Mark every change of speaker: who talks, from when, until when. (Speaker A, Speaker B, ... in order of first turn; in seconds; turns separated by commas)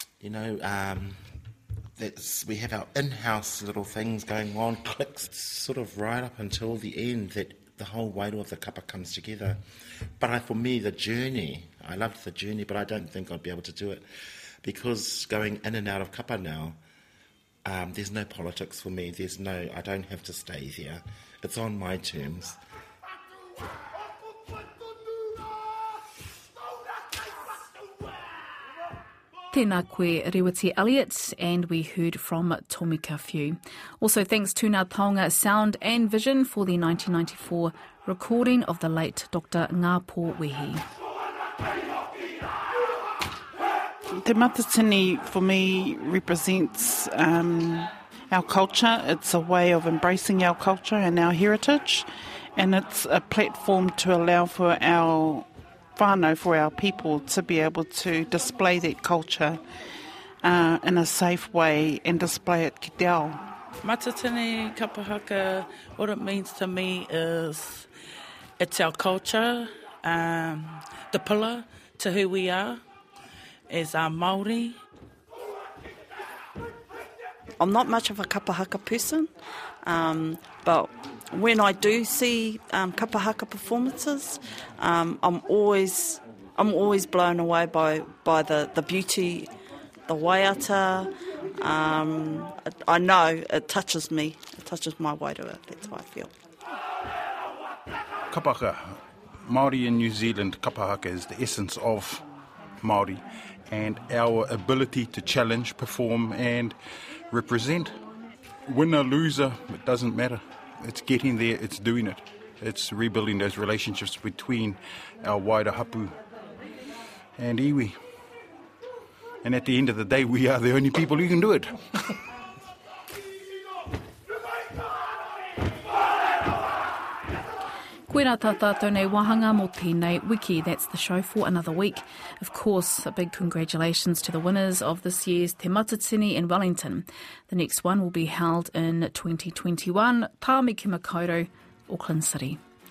Speaker A: 0.2-1.2, Speaker A: 1.9-9.6, Speaker A: 10.2-14.1, Speaker A: 14.6-16.8, Speaker A: 17.6-22.6, Speaker B: 29.5-40.8, Speaker C: 44.1-59.6, Speaker C: 60.4-63.4, Speaker D: 63.8-67.9, Speaker D: 68.6-72.8, Speaker D: 73.7-74.8, Speaker E: 77.6-79.3, Speaker E: 79.8-89.5, Speaker E: 90.1-96.3, Speaker F: 98.3-102.2, Speaker F: 102.8-106.8, Speaker F: 107.3-108.0, Speaker F: 108.7-116.2, Speaker F: 117.3-118.0, Speaker F: 119.4-121.9, Speaker B: 128.1-142.6